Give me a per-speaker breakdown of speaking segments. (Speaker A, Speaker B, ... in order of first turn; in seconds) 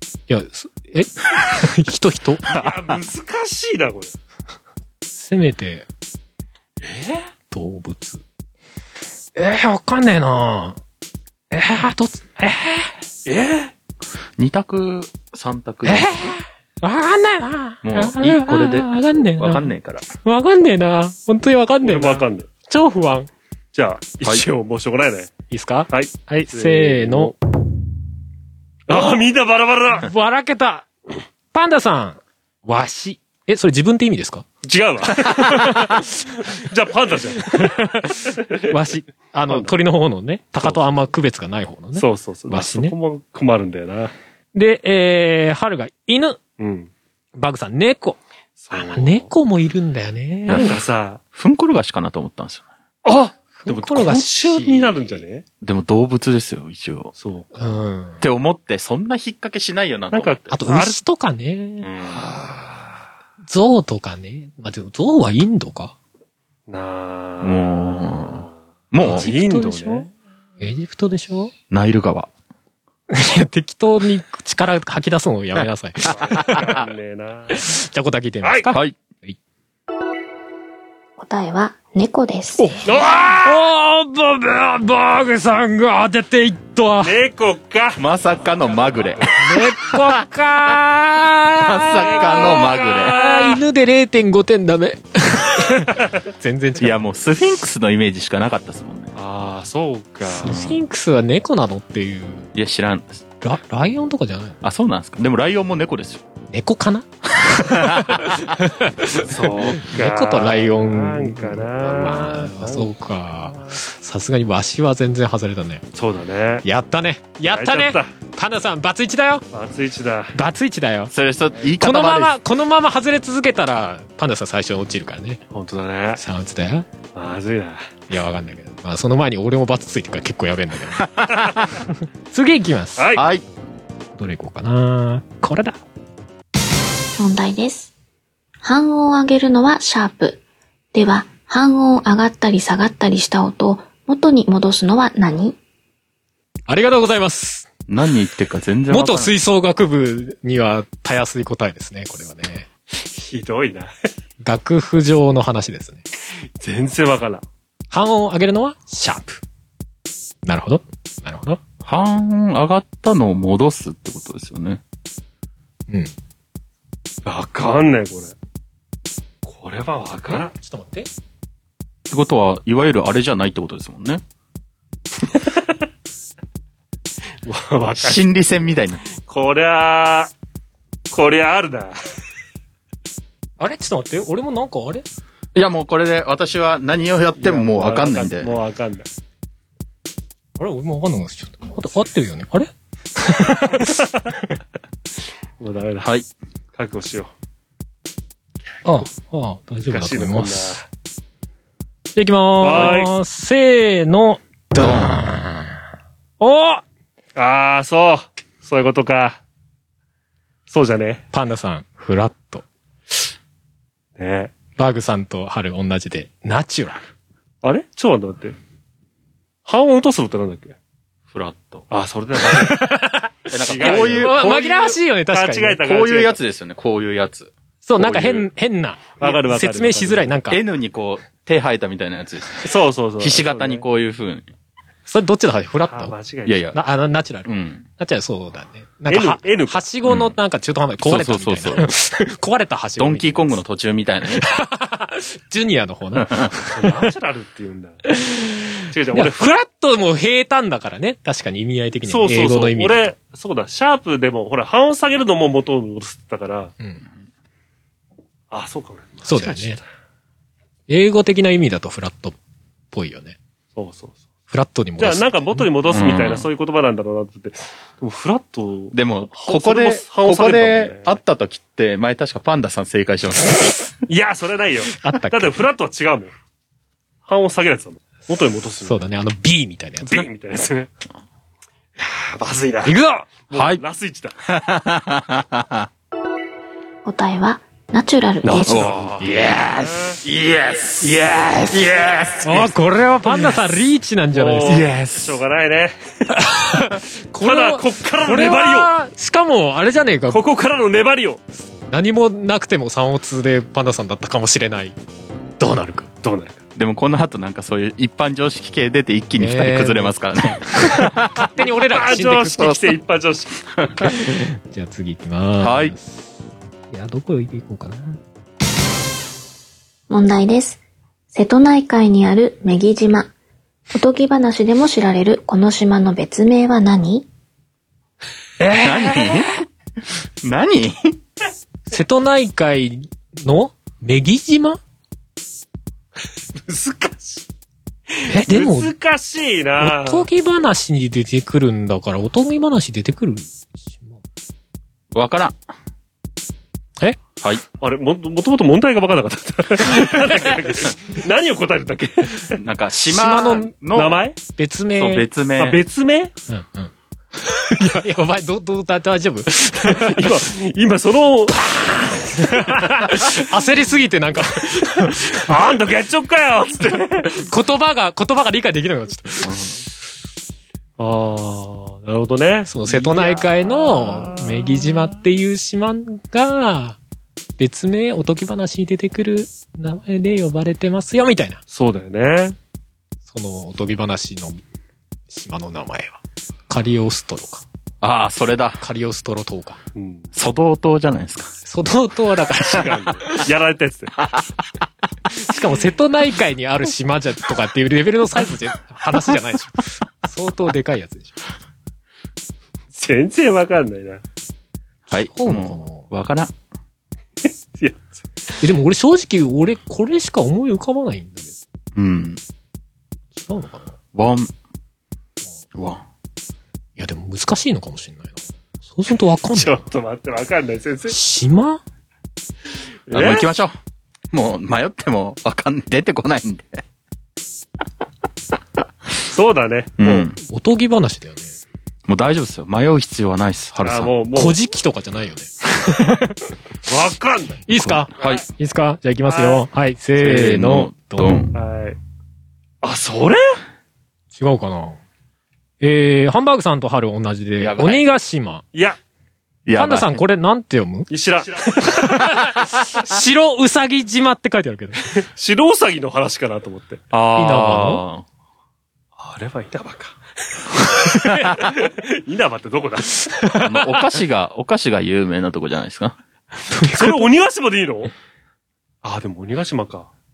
Speaker A: 0.3-2.5, 5.2-5.9, 7.5-8.2, 9.3-10.8, 11.5-12.9, 15.8-19.7, 20.2-23.3, 25.5-27.3, 28.9-29.2, 30.0-30.9, 31.5-34.5, 35.2-36.5, 37.4-43.0, 44.5-46.4, 47.4-48.2, 48.7-50.7, 53.6-55.2, 57.6-58.2, 60.5-61.9, 63.5-66.0, 69.0-70.1, 70.6-71.5, 73.1-76.8, 77.5-79.4, 82.6-87.1, 89.4-97.0, 100.3-102.5, 103.4-104.6, 106.5-115.8, 116.6-119.4, 120.3-121.1, 121.8-125.4, 126.2-126.9, 128.1-131.1, 132.3-133.1, 134.2-135.8, 146.7-147.7, 148.9-152.7, 154.4-156.0, 157.9-159.4, 160.4-161.6, 170.3-171.1, 183.6-185.0, 190.6-194.1, 198.8-200.8, 202.2-205.8, 206.4-206.8, 211.3-212.7, 214.8-217.0, 222.5-225.8, 227.8-230.6, 235.1-236.2, 236.7-243.6, 244.3-247.1, 248.1-253.1, 259.2-259.8, 260.9-262.4, 262.9-263.4, 264.5-265.7, 275.0-275.5, 278.9-280.3, 282.9-283.3, 289.2-289.9, 292.4-294.9, 296.5-300.4, 301.9-305.0, 305.6-306.1, 309.4-313.0, 314.0-316.3, 316.9-318.2, 328.6-329.4, 331.9-334.8, 338.3-338.9, 339.8-344.2, 353.1-353.8, 354.5-355.3, 356.5-360.4, 361.5-365.6, 367.2-369.6, 372.7-377.0, 377.6-381.6, 383.3-384.6, 385.3-387.6, 388.8-389.8, 391.7-393.4, 395.3-401.4, 405.1-406.1, 408.6-411.5, 413.4-413.9, 417.0-418.4, 418.9-419.8, 421.1-421.8, 430.4-431.5, 434.4-436.5, 437.7-441.5, 444.4-445.0, 445.8-448.6, 449.7-451.1, 451.7-455.2, 457.4-458.0, 463.2-464.0, 466.7-467.2
Speaker B: 2.5-3.0, 14.4-16.3, 17.8-20.1, 50.5-50.7, 51.3-52.7, 55.6-57.1, 58.2-60.5, 67.4-69.3, 71.7-72.3, 88.0-90.2, 91.6-93.2, 96.8-99.2, 100.4-100.8, 102.5-103.2, 104.6-106.2, 107.5-108.4, 121.1-122.4, 131.0-131.5, 133.2-133.4, 147.9-149.3, 161.8-164.8, 172.1-174.2, 177.9-179.0, 185.5-188.6, 196.0-196.3, 204.8-205.1, 221.3-221.8, 223.5-225.0, 225.8-228.3, 230.5-234.5, 236.5-236.8, 237.5-237.8, 240.1-240.3, 241.0-241.9, 243.0-244.4, 246.2-246.5, 265.9-266.5, 268.9-273.9, 283.5-283.8, 284.5-285.9, 288.6-289.6, 291.7-292.0, 294.7-295.4, 306.8-311.5, 313.8-314.1, 315.6-315.9, 328.8-329.6, 330.4-331.2, 345.1-345.6, 352.6-354.2, 354.9-355.8, 366.9-367.2, 369.4-369.8, 388.0-388.8, 390.4-391.5, 405.1-406.5, 411.9-412.4, 414.1-414.5, 415.8-416.0, 423.1-423.8, 424.3-426.8, 430.0-430.4, 432.1-434.1, 437.8-438.4, 440.2-441.5, 447.6-448.1, 449.7-450.2, 457.8-458.3, 463.6-466.2
Speaker C: 2.5-4.1, 6.8-7.3, 13.3-13.7, 21.8-22.5, 23.7-25.3, 25.9-27.3, 28.9-30.1, 34.6-37.8, 38.4-38.7, 42.0-44.1, 46.6-46.9, 48.6-49.3, 50.5-51.2, 53.0-55.4, 57.2-57.5, 60.1-61.0, 61.9-62.9, 66.7-70.1, 76.1-77.6, 78.4-78.7, 82.8-83.5, 87.0-88.0, 92.0-93.6, 99.2-100.6, 109.3-112.9, 116.0-116.7, 117.5-118.1, 119.5-120.3, 125.5-126.2, 127.2-127.9, 133.0-133.3, 153.0-153.9, 156.6-157.4, 167.2-168.3, 169.4-170.5, 175.3-175.7, 177.5-178.3, 179.2-180.3, 181.1-182.0, 187.4-189.1, 195.6-196.1, 196.8-197.3, 199.9-200.8, 202.6-203.1, 207.4-209.4, 210.7-211.2, 214.2-214.5, 217.6-218.6, 219.7-220.8, 221.9-222.8, 223.6-224.5, 225.3-226.4, 229.2-230.3, 232.6-233.8, 235.9-236.7, 239.1-239.8, 246.7-248.0, 248.9-249.5, 252.1-256.7, 258.5-259.8, 263.8-264.2, 265.0-271.1, 274.1-276.3, 277.3-279.0, 280.0-280.9, 282.0-284.3, 288.4-289.3, 291.5-292.7, 293.3-293.6, 294.3-296.4, 297.4-298.9, 300.3-301.4, 306.2-306.6, 311.6-313.7, 336.7-337.4, 338.2-340.3, 347.8-352.6, 353.9-354.4, 355.6-356.3, 359.9-361.7, 365.3-367.0, 371.0-374.8, 381.7-382.6, 389.9-390.3, 392.6-394.2, 402.9-404.2, 407.4-408.0, 419.5-421.1, 423.1-423.5, 429.3-430.3, 433.8-434.6, 436.9-437.7, 439.3-439.6, 441.5-442.0, 442.8-443.6, 451.1-451.9, 455.2-458.0, 459.2-463.3, 466.8-468.1, 469.0-470.1
Speaker D: 81.2-82.7, 137.2-137.9, 138.6-140.4, 140.9-145.6, 287.1-288.9, 320.1-323.3, 323.9-327.3